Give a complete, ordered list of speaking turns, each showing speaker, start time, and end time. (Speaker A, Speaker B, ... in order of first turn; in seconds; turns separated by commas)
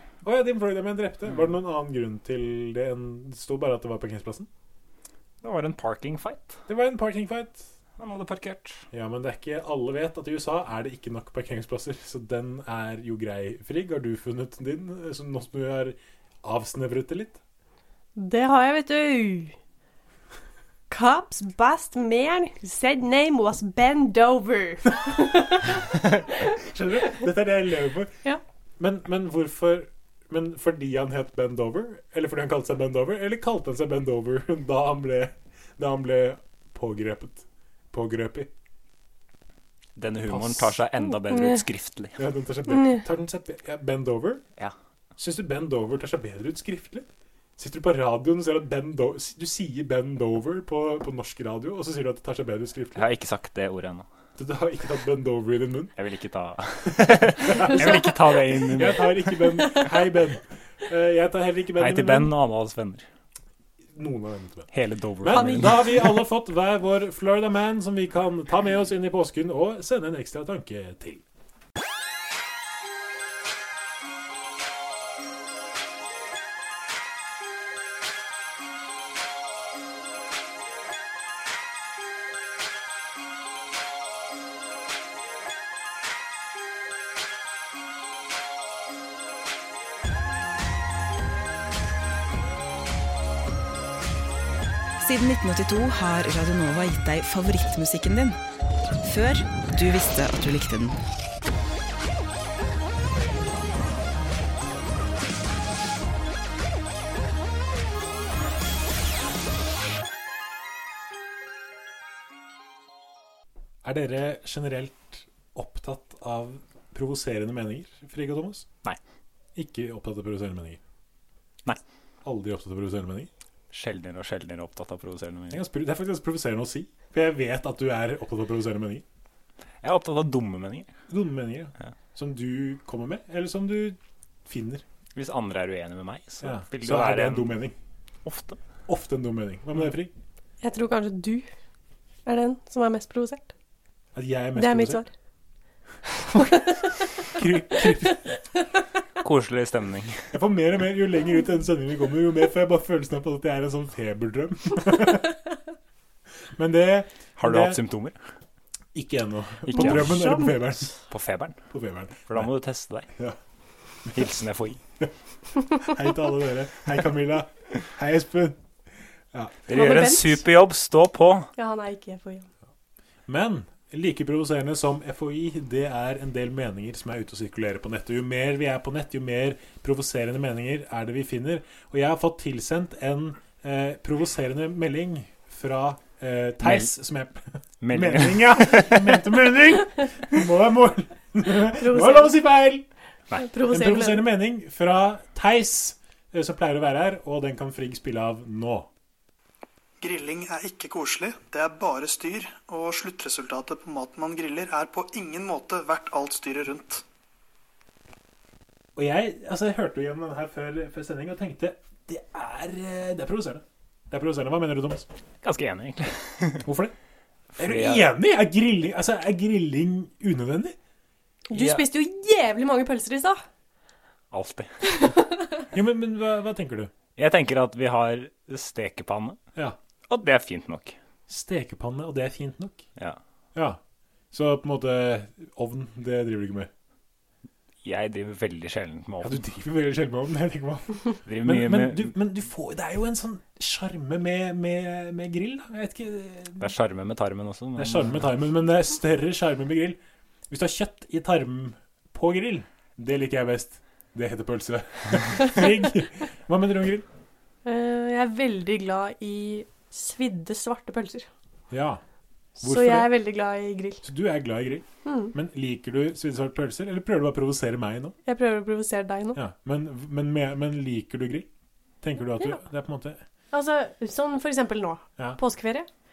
Speaker A: 0.2-4.5, Speaker B: 5.4-6.6, Speaker A: 6.7-7.7, Speaker B: 8.0-8.8, Speaker A: 8.9-17.4, Speaker C: 18.2-19.6, Speaker C: 20.9-25.8, Speaker A: 26.5-28.1, Speaker A: 28.8-38.5, Speaker B: 40.0-42.2, Speaker A: 40.3-40.7, Speaker A: 42.2-44.4, Speaker C: 42.7-43.0, Speaker A: 45.2-53.0, Speaker B: 53.0-54.1, Speaker A: 54.4-55.9, Speaker B: 56.0-59.7, Speaker A: 57.4-58.1, Speaker A: 58.7-62.3, Speaker B: 61.8-63.1, Speaker A: 63.9-64.7, Speaker B: 64.7-66.1, Speaker A: 65.2-71.2, Speaker D: 95.0-98.4, Speaker D: 99.0-101.0, Speaker A: 113.8-118.7, Speaker A: 119.5-120.8, Speaker A: 122.2-123.3, Speaker B: 123.7-125.6, Speaker A: 125.5-129.1, Speaker B: 129.8-130.9, Speaker A: 131.1-134.8, Speaker B: 135.2-137.6, Speaker A: 136.4-137.8, Speaker B: 138.2-138.6, Speaker A: 138.9-140.1, Speaker C: 140.6-141.5, Speaker C: 142.3-143.5, Speaker A: 144.2-145.0, Speaker C: 144.6-145.1, Speaker C: 146.3-146.9, Speaker A: 147.3-148.3, Speaker B: 149.2-150.3, Speaker A: 150.3-155.3, Speaker A: 156.6-157.8, Speaker B: 157.4-158.2, Speaker A: 158.9-160.9, Speaker B: 159.7-160.1, Speaker C: 159.8-160.5, Speaker B: 161.1-161.6, Speaker A: 161.7-162.5, Speaker B: 162.3-163.1, Speaker B: 164.1-164.8, Speaker A: 165.8-168.6, Speaker A: 169.3-170.0, Speaker B: 169.7-171.5, Speaker C: 169.7-170.4, Speaker C: 171.6-172.5, Speaker A: 173.3-192.8, Speaker B: 186.6-186.9, Speaker B: 187.8-189.3, Speaker C: 191.8-192.4, Speaker C: 193.4-194.3, Speaker A: 193.7-198.9, Speaker E: 200.0-207.0, Speaker A: 208.9-215.1, Speaker B: 215.4-216.7, Speaker A: 216.6-216.9, Speaker B: 217.6-218.1, Speaker A: 217.6-220.8, Speaker C: 221.5-223.4, Speaker B: 221.5-221.8, Speaker B: 224.3-224.7, Speaker C: 224.9-225.5, Speaker A: 225.7-226.9, Speaker B: 227.2-229.4, Speaker B: 230.1-231.0, Speaker A: 231.3-232.8, Speaker A: 233.6-233.8, Speaker A: 234.3-236.7, Speaker B: 237.8-239.4, Speaker A: 239.2-246.7, Speaker B: 241.3-242.1, Speaker B: 246.6-248.2, Speaker A: 247.8-250.0, Speaker A: 250.5-257.1, Speaker C: 257.6-261.3, Speaker A: 261.7-262.0, Speaker C: 262.6-264.0, Speaker A: 262.6-263.1, Speaker A: 264.0-268.2, Speaker C: 265.1-265.3, Speaker C: 268.3-269.4, Speaker A: 269.4-271.5, Speaker A: 272.0-273.2, Speaker C: 273.5-275.9